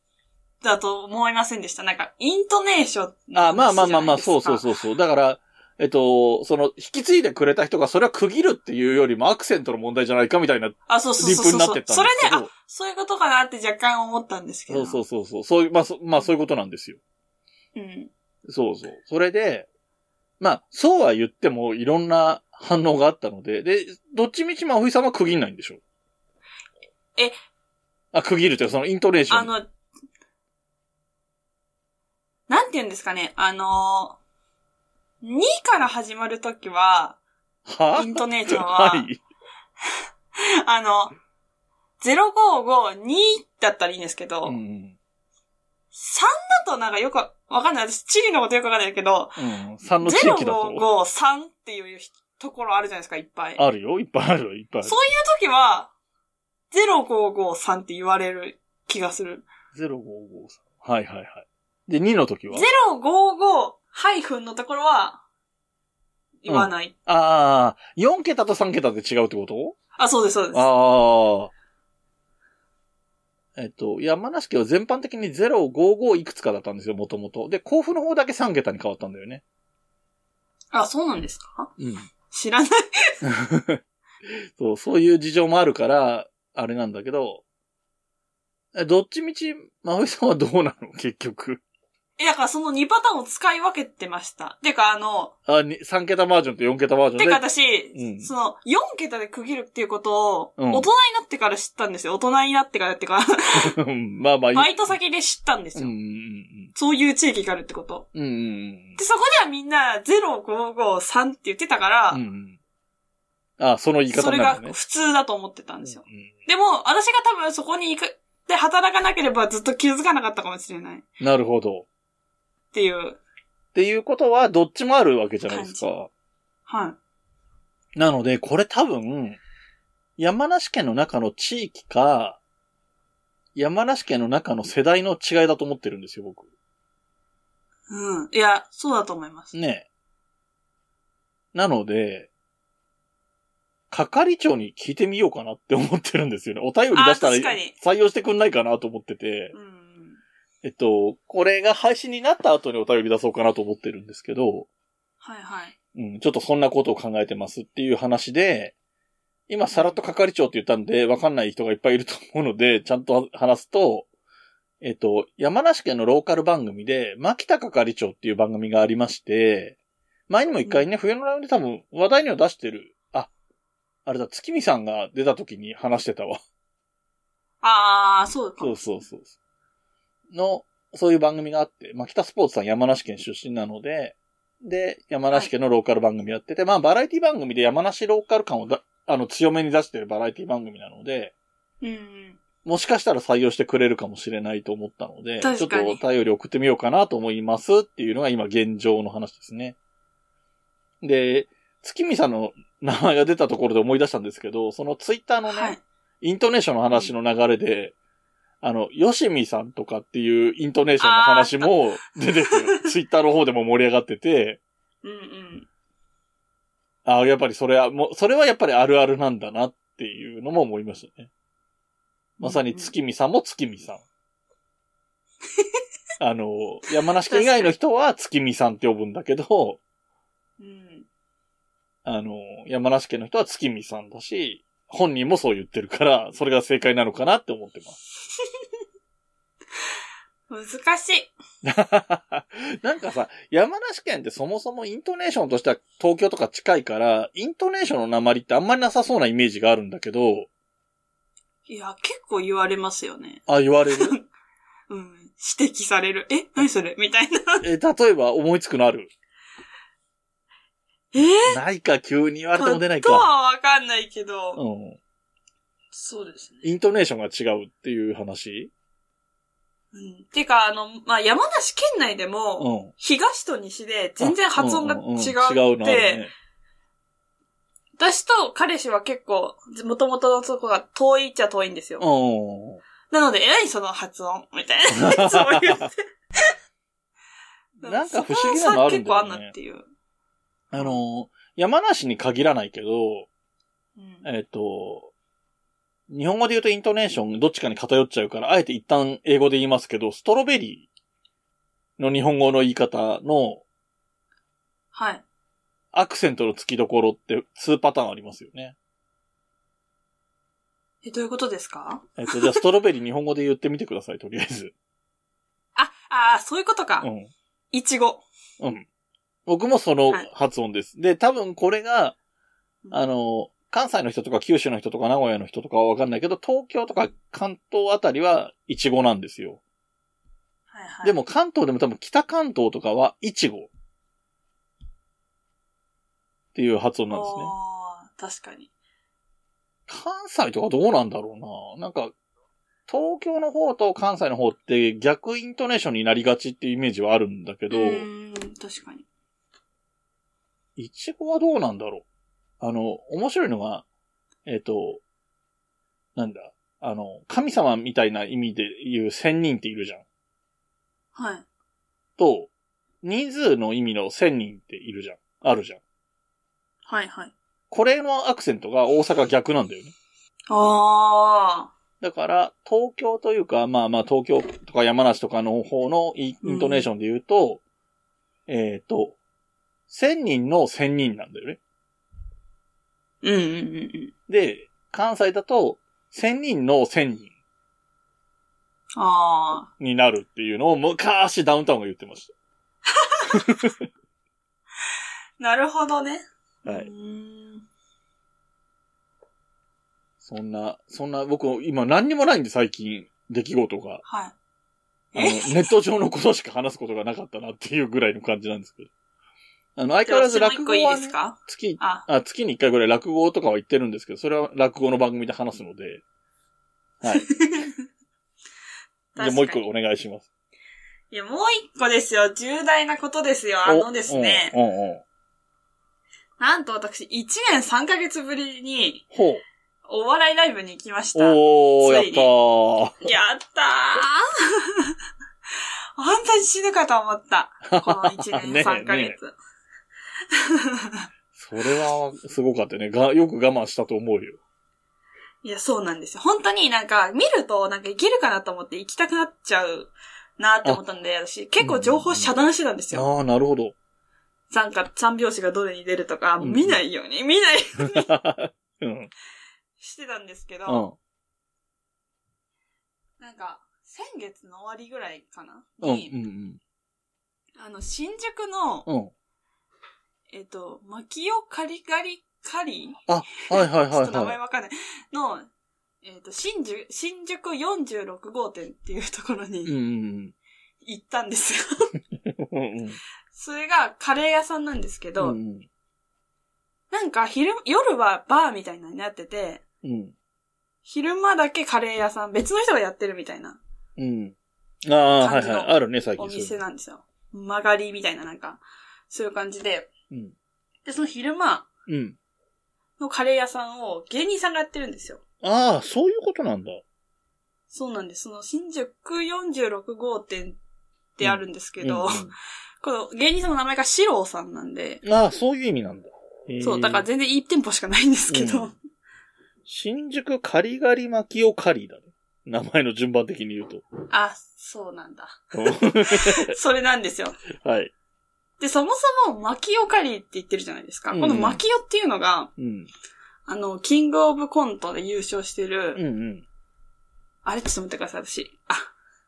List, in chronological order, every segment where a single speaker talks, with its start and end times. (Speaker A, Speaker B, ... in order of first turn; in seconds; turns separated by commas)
Speaker A: 0.6-4.7, Speaker B: 3.3-12.5, Speaker A: 10.9-15.0, Speaker B: 14.7-17.0, Speaker A: 17.8-18.1, Speaker B: 18.5-19.7, Speaker B: 20.4-25.8, Speaker B: 28.1-29.5, Speaker A: 29.3-29.7, Speaker A: 32.5-34.2, Speaker A: 35.2-37.2, Speaker B: 37.7-39.2, Speaker A: 38.0-39.1, Speaker A: 40.4-41.2, Speaker A: 42.0-44.6, Speaker B: 44.5-45.0, Speaker A: 45.9-49.4, Speaker B: 49.4-50.9, Speaker A: 50.0-53.6, Speaker B: 53.6-54.9, Speaker A: 54.8-55.9, Speaker A: 56.7-59.5, Speaker B: 59.7-62.7, Speaker A: 62.5-65.2, Speaker A: 66.4-66.9, Speaker B: 66.5-69.8, Speaker A: 70.0-70.7, Speaker B: 70.5-71.5, Speaker B: 73.6-79.4, Speaker A: 80.7-81.7, Speaker B: 81.8-82.1, Speaker A: 82.3-83.2, Speaker B: 83.2-87.4, Speaker B: 88.7-91.6, Speaker A: 92.2-95.3, Speaker B: 95.5-98.3, Speaker A: 97.2-103.8, Speaker B: 100.6-100.9, Speaker B: 103.6-105.0, Speaker A: 104.5-106.0, Speaker B: 105.8-106.7, Speaker A: 106.8-108.1, Speaker B: 108.1-109.0, Speaker A: 109.0-112.2, Speaker B: 112.1-112.6, Speaker B: 113.6-114.8, Speaker A: 114.1-121.1, Speaker B: 115.8-116.3, Speaker B: 121.2-121.9, Speaker A: 122.7-123.2, Speaker B: 123.8-126.1, Speaker A: 125.5-125.9, Speaker A: 126.7-127.0, Speaker B: 128.0-129.4, Speaker B: 130.2-132.4, Speaker B: 133.6-136.5, Speaker A: 137.9-139.5, Speaker B: 139.5-139.9, Speaker B: 141.5-142.3, Speaker B: 143.9-149.5, Speaker A: 146.9-147.7, Speaker A: 149.5-150.2, Speaker B: 150.6-154.7, Speaker A: 155.2-155.8, Speaker B: 155.9-158.7, Speaker B: 159.5-164.1, Speaker A: 159.7-160.0, Speaker B: 164.8-169.8, Speaker B: 170.3-173.3, Speaker B: 174.1-176.4, Speaker A: 177.6-178.9, Speaker B: 178.6-179.3, Speaker B: 180.3-191.3, Speaker A: 191.8-192.4, Speaker B: 192.7-199.8, Speaker A: 195.4-196.0, Speaker B: 201.0-207.9, Speaker A: 205.5-205.8, Speaker B: 208.6-214.6, Speaker A: 211.0-211.8, Speaker A: 212.5-212.8, Speaker A: 215.0-215.7, Speaker B: 217.1-221.3, Speaker B: 222.4-224.0, Speaker A: 222.4-222.9, Speaker B: 226.2-229.8, Speaker A: 227.3-227.7, Speaker A: 230.6-231.1, Speaker B: 232.1-238.0, Speaker A: 240.5-241.3, Speaker B: 241.6-250.5, Speaker A: 251.7-254.3, Speaker B: 253.5-254.2, Speaker A: 254.9-257.7, Speaker B: 257.6-259.1, Speaker A: 261.1-261.6, Speaker B: 261.5-263.3, Speaker A: 262.6-264.6, Speaker B: 264.6-265.0, Speaker A: 265.9-266.7, Speaker B: 266.6-268.7, Speaker A: 269.9-276.2, Speaker B: 272.6-272.9, Speaker B: 274.2-276.3, Speaker A: 278.0-282.1, Speaker B: 282.0-282.8, Speaker A: 283.1-286.4, Speaker B: 285.0-285.9, Speaker B: 287.8-289.5, Speaker A: 287.8-289.9, Speaker B: 290.7-293.3, Speaker A: 290.7-291.0, Speaker A: 294.0-294.3, Speaker B: 294.2-295.1, Speaker B: 296.1-300.9, Speaker B: 302.0-303.6, Speaker A: 304.9-305.2, Speaker B: 305.9-308.8, Speaker A: 311.0-312.6, Speaker B: 312.2-314.7, Speaker A: 315.8-317.1, Speaker B: 317.0-317.3, Speaker A: 317.7-318.2, Speaker B: 318.6-318.9, Speaker B: 319.5-322.2, Speaker B: 322.9-329.6, Speaker A: 330.7-331.2, Speaker B: 331.0-333.7, Speaker B: 336.5-337.5, Speaker A: 337.1-338.7, Speaker B: 339.9-342.1, Speaker B: 342.9-348.1, Speaker A: 347.7-349.1, Speaker B: 350.8-352.1, Speaker B: 352.6-353.9, Speaker B: 354.5-355.0, Speaker B: 356.2-360.0, Speaker A: 361.1-361.4, Speaker B: 362.2-362.5, Speaker B: 363.0-365.8, Speaker A: 366.9-367.3, Speaker B: 367.7-369.9, Speaker A: 370.5-371.7, Speaker B: 372.0-377.6, Speaker A: 376.4-376.9, Speaker B: 378.5-379.2, Speaker B: 379.9-381.6, Speaker A: 383.2-384.1, Speaker B: 384.3-387.3, Speaker A: 389.0-389.7, Speaker B: 389.8-392.3, Speaker A: 393.1-393.5, Speaker B: 393.3-393.8, Speaker A: 395.4-397.6, Speaker B: 396.6-396.9, Speaker B: 400.2-404.0, Speaker A: 404.1-404.4, Speaker B: 405.1-408.9, Speaker A: 405.1-405.7, Speaker B: 409.8-416.0, Speaker A: 410.1-412.1, Speaker B: 417.0-417.3, Speaker A: 417.1-417.8, Speaker A: 419.1-419.6, Speaker B: 419.2-420.3, Speaker A: 421.1-424.5, Speaker B: 423.7-425.0, Speaker A: 426.4-429.1, Speaker B: 429.1-429.4, Speaker A: 429.9-432.3, Speaker B: 431.2-433.1, Speaker A: 433.0-434.9, Speaker A: 436.0-439.4, Speaker B: 437.7-439.2, Speaker A: 440.5-441.0, Speaker B: 441.3-444.4, Speaker A: 445.4-453.1, Speaker B: 451.6-452.3, Speaker B: 452.9-453.7, Speaker A: 454.5-458.1, Speaker B: 456.4-456.8, Speaker B: 457.8-459.1, Speaker A: 459.8-460.9, Speaker B: 460.7-461.0, Speaker A: 463.2-466.1, Speaker B: 465.8-466.6, Speaker A: 467.6-468.9, Speaker B: 468.9-469.1, Speaker A: 470.3-475.5, Speaker B: 473.1-474.4, Speaker A: 476.0-479.7, Speaker B: 479.7-480.4, Speaker A: 480.8-481.9, Speaker B: 482.2-483.0, Speaker A: 483.3-485.4, Speaker B: 485.2-485.7, Speaker A: 486.9-489.6, Speaker B: 489.8-490.1, Speaker A: 490.9-493.6, Speaker B: 494.0-494.4, Speaker B: 494.9-496.6, Speaker A: 495.2-499.9, Speaker A: 500.9-501.7, Speaker B: 501.9-502.2, Speaker A: 503.0-505.2, Speaker B: 505.4-506.8, Speaker A: 507.7-510.6, Speaker A: 511.2-515.0, Speaker B: 511.2-512.3, Speaker B: 515.0-517.1, Speaker A: 516.6-518.8, Speaker B: 518.3-518.7, Speaker B: 519.7-523.8, Speaker A: 524.1-527.4, Speaker B: 525.5-526.5, Speaker B: 527.6-527.9, Speaker A: 528.6-532.5, Speaker B: 531.1-531.6, Speaker B: 532.6-532.9, Speaker A: 533.5-536.0, Speaker B: 536.0-536.5, Speaker A: 537.5-538.9